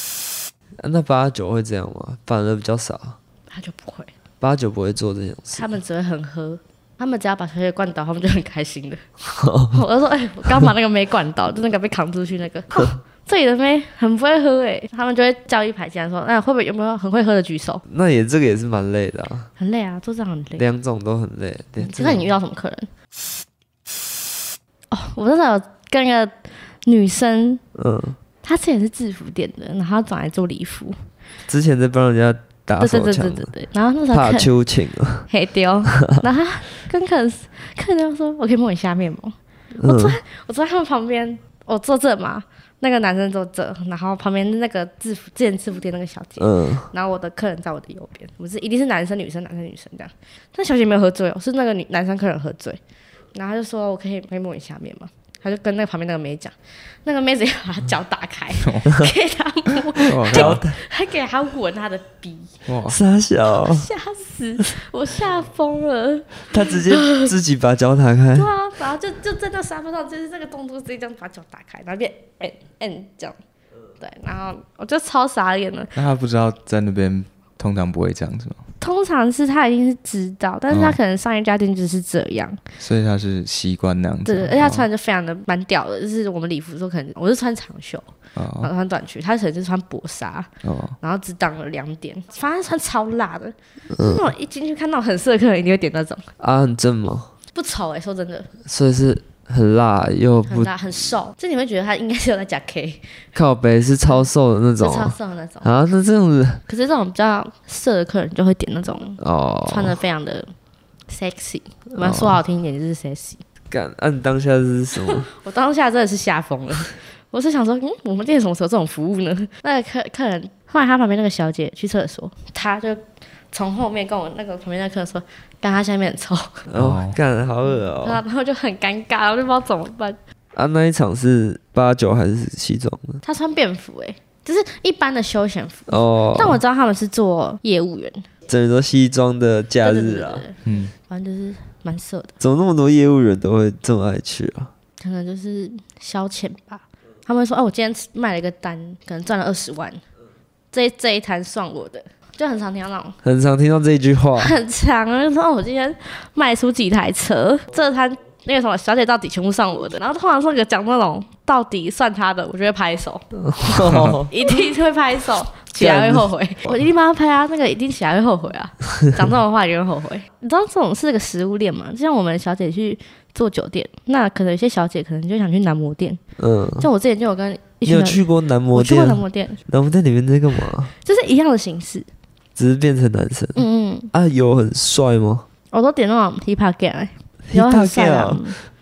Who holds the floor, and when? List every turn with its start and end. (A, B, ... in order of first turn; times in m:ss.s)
0:00.8-0:03.2 A
0:03.5-0:04.1 B
0:04.4-0:05.6 A
0:05.5-0:09.0 B
0:09.3-0:09.8 A
0:09.7-0:17.8 B
0:17.9-0:19.5 A
0:19.6-0:20.6 B
0:20.6-0:22.3 A
0:21.8-0:22.9 B
0:24.9-0:27.6 B
0:27.8-0:28.2 A
0:28.4-0:31.0 B
0:31.5-0:33.5 A
0:32.8-0:34.5 B
0:34.1-0:35.3 A
0:35.3-0:52.8 B
0:39.8-0:40.2 A
0:46.4-0:46.9 A
0:53.3-1:02.6 B
1:00.1-1:00.6 C
1:00.3-1:00.8 A
1:02.7-1:03.0 C
1:02.9-1:03.9 A
1:03.6-1:07.3 B
1:06.5-1:08.5 A
1:08.4-1:13.4 B
1:14.0-1:16.0 B
1:16.0-1:18.6 C
1:18.8-1:22.6 B
1:20.7-1:21.0 C
1:22.8-1:24.8 C
1:24.3-1:30.5 B
1:28.4-1:28.7 C
1:30.6-1:31.0 C
1:31.0-1:36.3 B
1:33.9-1:34.2 A
1:36.4-1:37.3 A
1:37.5-1:38.5 B
1:38.7-1:40.7 A
1:40.5-1:43.2 B
1:43.4-1:46.6 A
1:44.8-1:45.7 B
1:46.7-1:50.5 B
1:49.2-1:50.0 A
1:51.1-1:53.4 B
1:52.0-1:52.4 A
1:53.7-1:55.3 A
1:55.1-2:06.6 B
2:06.7-2:08.2 A
2:06.8-2:07.2 C
2:07.9-2:10.2 B
2:10.5-2:13.2 A
2:13.2-2:18.3 B
2:15.9-2:16.6 A
2:18.5-2:20.4 A
2:19.8-2:22.4 B
2:20.6-2:20.9 C
2:22.4-2:24.7 A
2:25.0-2:30.0 B
2:30.7-2:33.2 B
2:33.2-2:34.6 A
2:34.4-2:56.2 B
2:43.4-2:44.3 A
2:45.8-2:46.7 A
2:56.4-2:56.9 A
2:56.8-2:59.6 B
2:57.8-3:00.9 A
3:01.0-3:02.1 B
3:02.6-3:05.5 A
3:03.6-3:04.1 B
3:05.7-3:08.6 B
3:07.5-3:08.6 A